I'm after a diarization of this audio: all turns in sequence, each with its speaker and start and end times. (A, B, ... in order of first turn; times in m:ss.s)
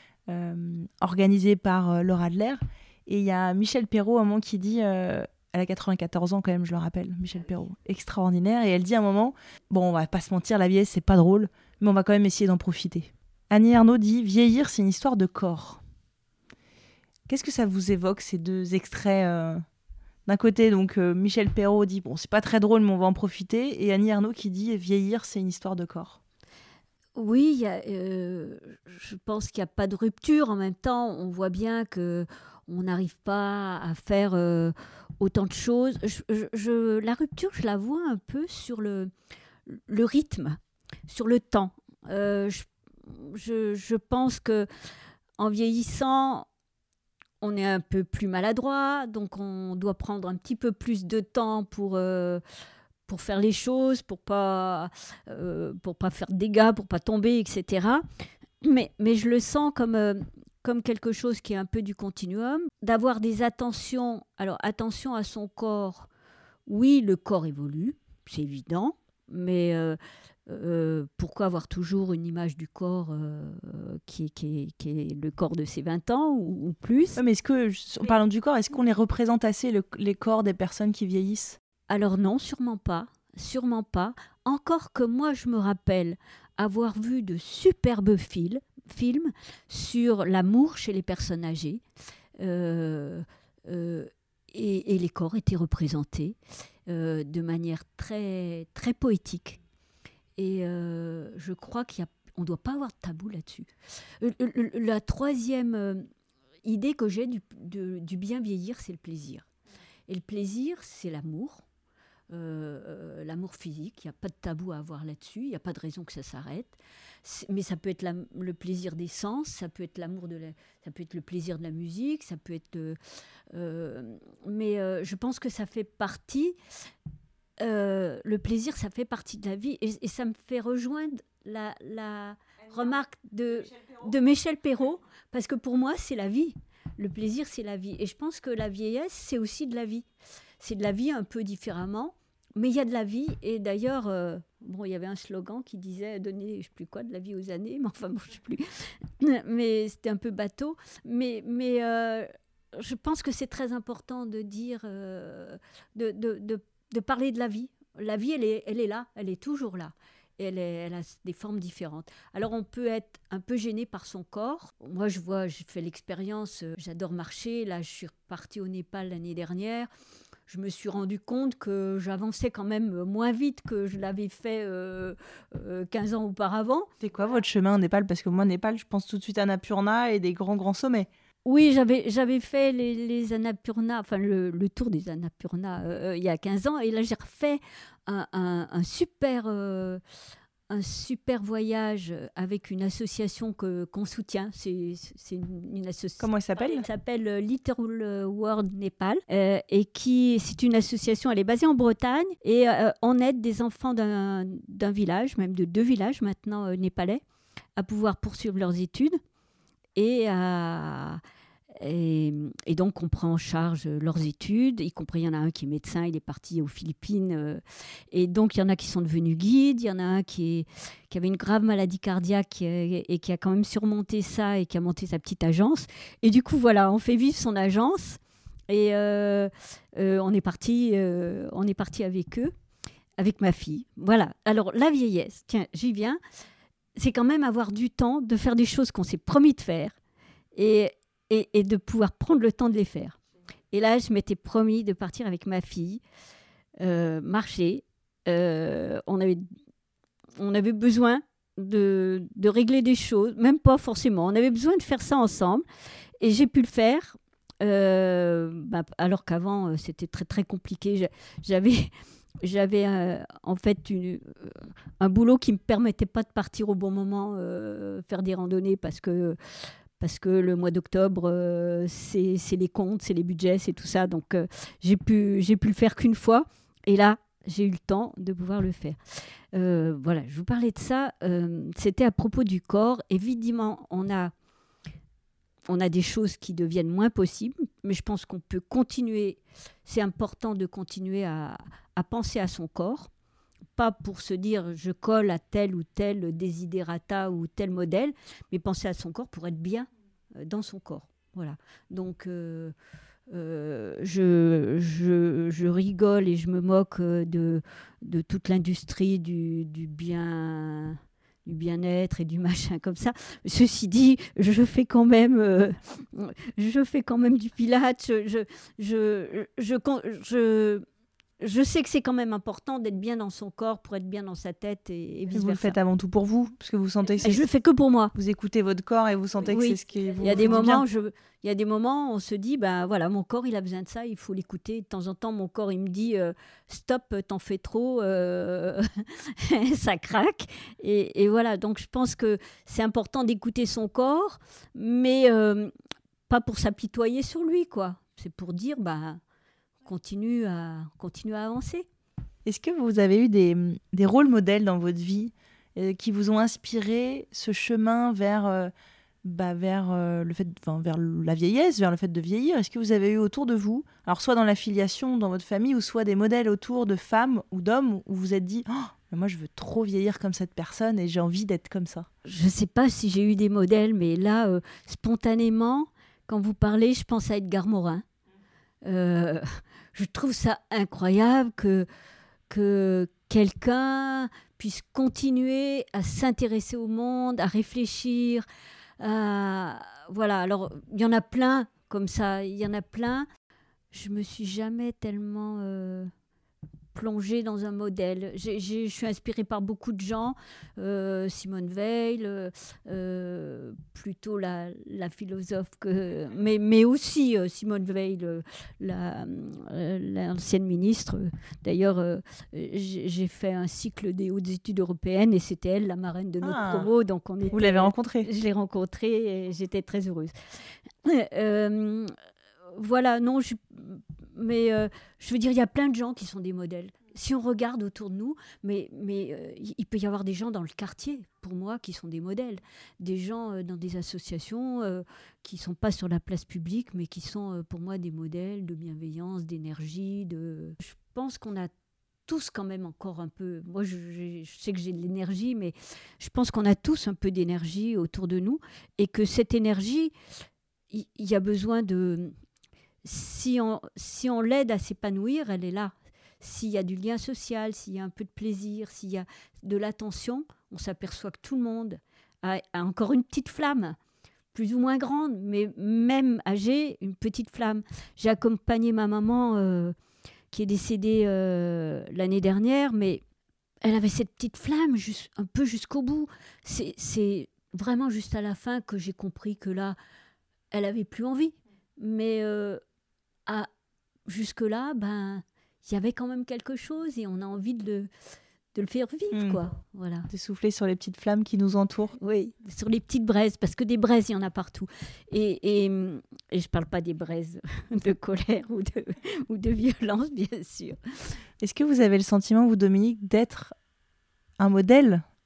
0:00.3-0:15.8 A
0:17.3-0:19.6 A
0:20.3-0:26.2 A
0:27.2-0:39.1 B
0:39.6-0:44.7 B
0:45.4-0:46.5 B
0:47.4-0:52.4 B
0:53.1-0:58.0 B
0:58.6-1:06.1 B
1:06.7-1:17.2 B
1:17.2-1:21.6 A
1:21.9-1:31.8 B
1:32.4-1:39.6 B
1:40.4-1:46.0 B
1:46.6-1:49.4 B
1:50.1-1:51.6 B
1:52.3-2:03.0 B
2:03.5-2:06.6 B
2:07.6-2:20.0 B
2:20.6-2:49.9 B
2:50.5-2:56.9 B
2:57.0-3:01.1 A
3:01.4-3:10.0 B
3:10.7-3:27.2 B
3:16.2-3:16.9 A
3:27.8-3:29.2 B
3:29.9-3:31.2 B
3:31.7-3:52.5 B
3:53.2-3:56.2 B
3:57.0-4:00.0 B
4:00.5-4:03.2 B
4:03.7-4:06.0 B
4:06.8-4:09.5 B
4:10.4-4:15.6 B
4:16.2-4:29.4 B
4:30.0-4:39.0 B
4:39.5-4:44.3 B
4:45.7-4:53.1 B
4:53.7-5:02.7 B
5:03.3-5:20.8 B
5:21.4-5:25.8 B
5:25.3-5:27.4 A
5:27.2-5:28.1 B
5:28.1-5:30.8 A
5:29.5-5:45.7 B
5:46.3-5:49.2 B
5:49.8-5:51.9 B
5:52.4-5:58.7 A
5:59.2-6:12.1 A
6:12.2-6:18.0 B
6:18.8-6:21.9 B
6:22.5-6:28.4 B
6:29.0-6:33.2 B
6:33.9-6:36.1 B
6:36.9-7:00.3 B
6:56.4-6:56.9 A
6:57.5-6:58.3 A
7:01.0-7:02.1 B
7:02.7-7:21.7 B
7:22.3-7:30.1 B
7:30.9-7:32.3 B
7:33.0-7:44.0 B
7:44.5-7:49.9 B
7:50.5-7:53.2 B
7:53.8-8:00.0 B
8:00.7-8:02.8 B
8:04.2-8:08.1 B
8:08.7-8:10.3 B
8:09.3-8:09.6 A
8:10.3-8:12.2 A
8:12.2-8:21.4 B
8:21.6-8:23.7 A
8:24.6-8:25.2 A